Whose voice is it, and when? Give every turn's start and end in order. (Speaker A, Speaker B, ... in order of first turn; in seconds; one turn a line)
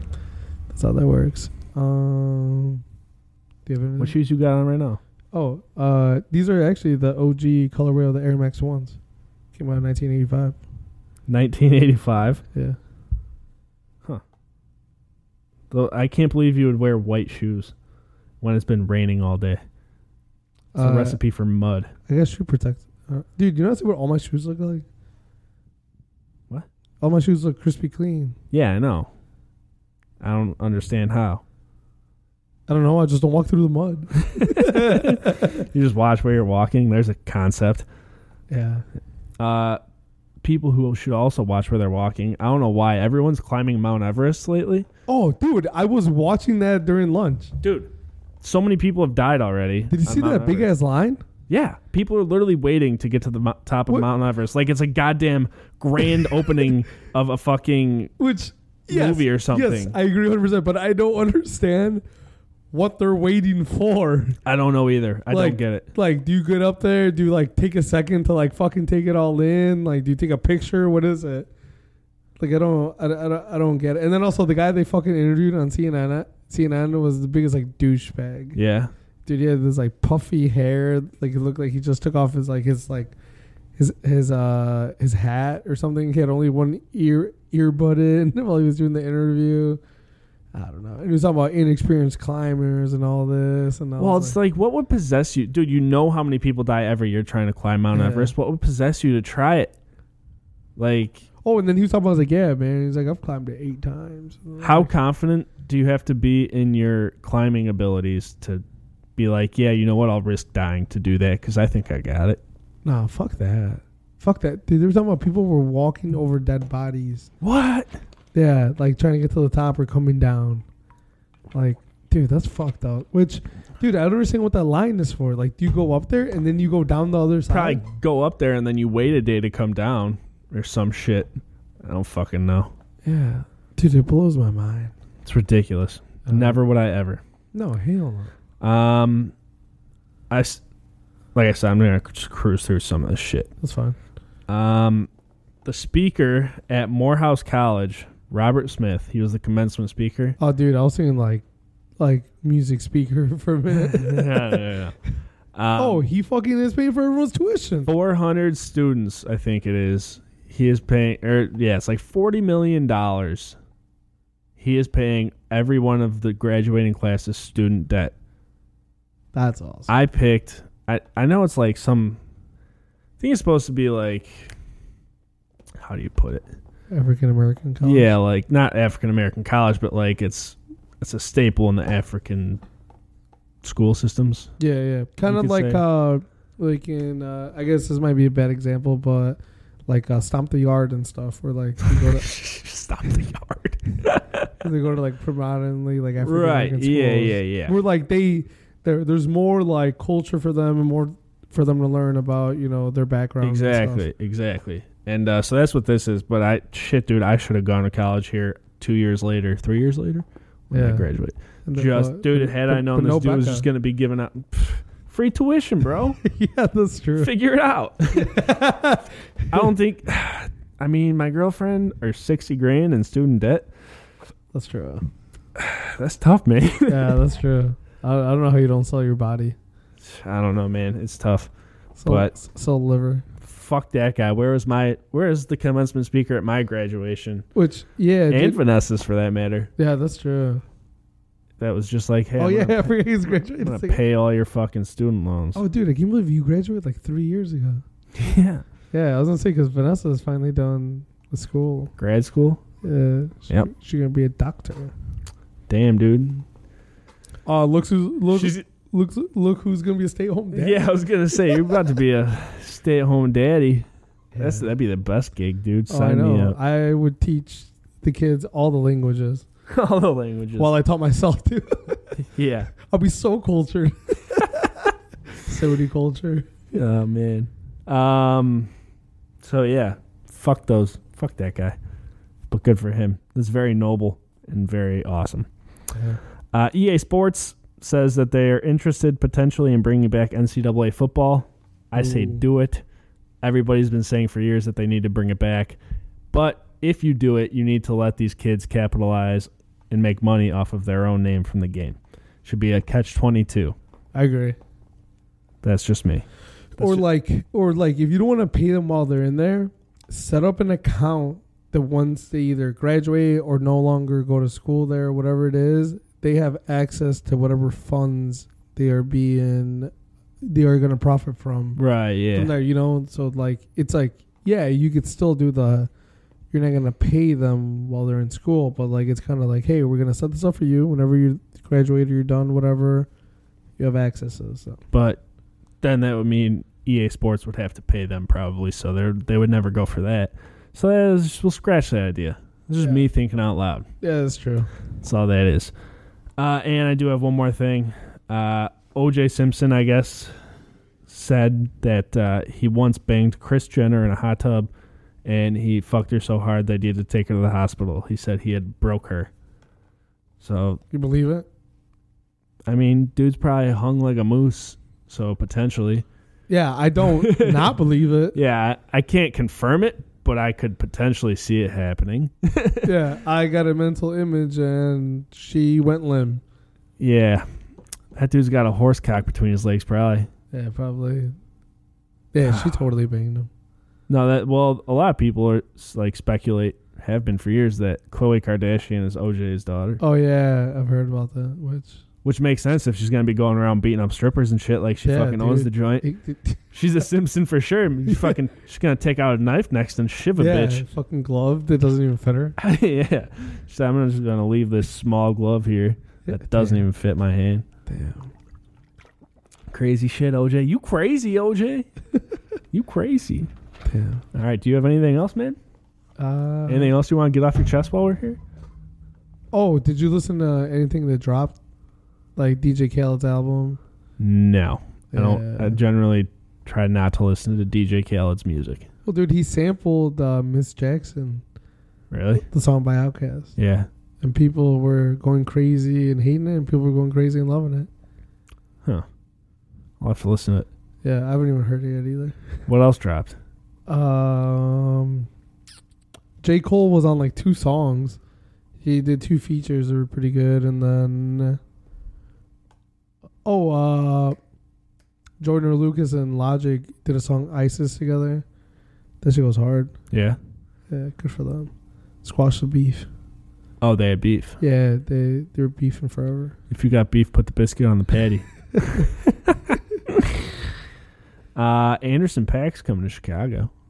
Speaker A: 0.7-2.8
Speaker A: 3.6-4.2
Speaker B: 4.0-5.0
Speaker A: 5.3-9.0
Speaker A: 9.5-10.6
Speaker B: 11.3-12.4
Speaker B: 15.7-17.7
Speaker B: 18.4-19.6
Speaker A: 20.7-21.2
Speaker B: 20.8-21.9
Speaker A: 22.1-24.9
Speaker A: 27.0-28.4
Speaker B: 28.5-29.1
Speaker B: 30.2-31.4
Speaker A: 32.7-35.6
Speaker B: 34.3-37.9
Speaker A: 38.5-38.8
Speaker B: 39.4-39.8
Speaker B: 40.4-44.9
Speaker A: 45.1-47.5
Speaker B: 47.6-50.7
Speaker A: 49.9-51.2
Speaker B: 51.5-58.1
Speaker A: 58.2-62.0
Speaker B: 58.9-59.9
Speaker A: 62.7-64.4
Speaker B: 64.5-65.9
Speaker A: 65.3-71.5
Speaker A: 72.4-78.6
Speaker B: 78.5-78.9
Speaker A: 79.2-83.2
Speaker A: 83.8-89.8
Speaker A: 90.5-94.3
Speaker B: 94.0-99.7
Speaker A: 97.9-98.3
Speaker B: 100.8-101.2
Speaker A: 101.4-104.9
Speaker B: 104.6-108.6
Speaker B: 109.2-112.4
Speaker A: 112.8-117.3
Speaker B: 117.4-117.9
Speaker A: 118.3-120.7
Speaker A: 121.5-127.8
Speaker B: 127.5-132.7
Speaker A: 133.0-134.9
Speaker B: 135.2-137.2
Speaker A: 136.2-136.6
Speaker A: 137.5-138.3
Speaker B: 138.6-139.3
Speaker B: 140.3-140.6
Speaker B: 141.3-143.5
Speaker A: 143.6-144.0
Speaker B: 144.5-145.1
Speaker B: 145.6-150.4
Speaker A: 150.4-151.4
Speaker A: 152.0-154.8
Speaker B: 153.7-154.9
Speaker B: 155.5-156.0
Speaker A: 155.8-157.9
Speaker B: 157.9-163.6
Speaker B: 164.6-168.1
Speaker A: 169.3-169.9
Speaker B: 169.9-172.2
Speaker B: 173.2-174.5
Speaker B: 175.8-176.5
Speaker A: 176.9-178.1
Speaker B: 177.8-182.6
Speaker B: 183.6-184.5
Speaker A: 184.6-192.3
Speaker B: 185.2-185.8
Speaker B: 191.9-194.5
Speaker A: 194.6-204.1
Speaker B: 196.2-197.7
Speaker B: 203.4-216.2
Speaker A: 210.7-211.1
Speaker A: 211.7-213.7
Speaker A: 216.2-217.3
Speaker B: 217.2-218.4
Speaker A: 218.1-219.6
Speaker B: 219.5-223.7
Speaker A: 224.5-225.1
Speaker B: 225.6-227.2
Speaker A: 226.9-229.6
Speaker B: 230.0-231.5
Speaker A: 232.0-233.2
Speaker B: 233.4-237.4
Speaker A: 237.5-238.6
Speaker B: 238.3-239.7
Speaker A: 239.8-240.6
Speaker B: 241.6-245.6
Speaker A: 242.4-244.0
Speaker A: 245.5-247.8
Speaker B: 248.1-248.6
Speaker A: 248.9-251.9
Speaker B: 252.0-252.6
Speaker A: 252.8-254.9
Speaker B: 255.7-256.4
Speaker A: 257.4-260.8
Speaker B: 258.3-258.6
Speaker B: 260.5-266.6
Speaker A: 264.3-264.7
Speaker A: 265.9-269.4
Speaker B: 269.7-270.7
Speaker A: 270.6-272.2
Speaker B: 272.2-272.7
Speaker A: 272.8-274.8
Speaker A: 275.4-276.5
Speaker B: 276.7-278.7
Speaker B: 279.4-281.7
Speaker B: 282.5-285.5
Speaker A: 285.9-286.2
Speaker B: 286.5-292.8
Speaker A: 291.9-292.4
Speaker B: 293.4-295.8
Speaker B: 296.3-303.8
Speaker A: 304.1-304.6
Speaker B: 305.6-306.2
Speaker B: 306.8-307.0
Speaker A: 306.8-319.9
Speaker A: 320.4-321.8
Speaker B: 321.8-322.5
Speaker A: 322.3-325.9
Speaker A: 326.5-333.1
Speaker A: 333.8-334.8
Speaker B: 334.9-335.2
Speaker B: 335.8-343.9
Speaker A: 344.0-344.7
Speaker B: 345.0-345.7
Speaker B: 346.4-350.3
Speaker B: 351.1-354.7
Speaker B: 355.2-359.3
Speaker B: 360.4-360.8
Speaker A: 360.9-361.4
Speaker B: 362.7-366.1
Speaker A: 366.5-368.4
Speaker B: 367.0-367.8
Speaker B: 368.3-372.9
Speaker A: 372.8-376.4
Speaker B: 377.0-377.5
Speaker B: 378.1-380.3
Speaker A: 380.5-381.4
Speaker A: 382.3-383.5
Speaker B: 382.4-382.8
Speaker B: 384.1-390.0
Speaker A: 390.0-392.0
Speaker B: 392.2-396.1
Speaker A: 395.0-396.6
Speaker B: 396.7-400.8
Speaker A: 398.1-398.4
Speaker A: 400.4-402.6
Speaker B: 402.6-407.6
Speaker A: 406.3-406.8
Speaker A: 407.9-408.3
Speaker B: 409.7-411.9
Speaker B: 412.7-413.5
Speaker A: 413.9-414.2
Speaker B: 414.3-415.6
Speaker A: 416.2-416.9
Speaker B: 416.7-418.4
Speaker A: 419.5-421.6
Speaker A: 422.4-423.8
Speaker B: 424.2-428.9
Speaker A: 425.1-425.8
Speaker A: 429.1-431.4
Speaker B: 432.1-432.4
Speaker A: 432.4-433.6
Speaker B: 433.6-433.9
Speaker A: 434.2-437.9
Speaker B: 440.0-440.7
Speaker A: 441.0-442.5
Speaker B: 442.7-443.4
Speaker A: 443.9-445.3
Speaker A: 446.4-448.2
Speaker A: 448.8-451.6
Speaker A: 453.4-454.4
Speaker A: 455.4-458.4
Speaker A: 459.2-459.9
Speaker B: 460.1-460.4
Speaker A: 460.9-461.7
Speaker A: 462.2-463.1
Speaker B: 463.8-464.6
Speaker A: 464.6-466.6
Speaker B: 466.7-470.4
Speaker B: 471.5-473.7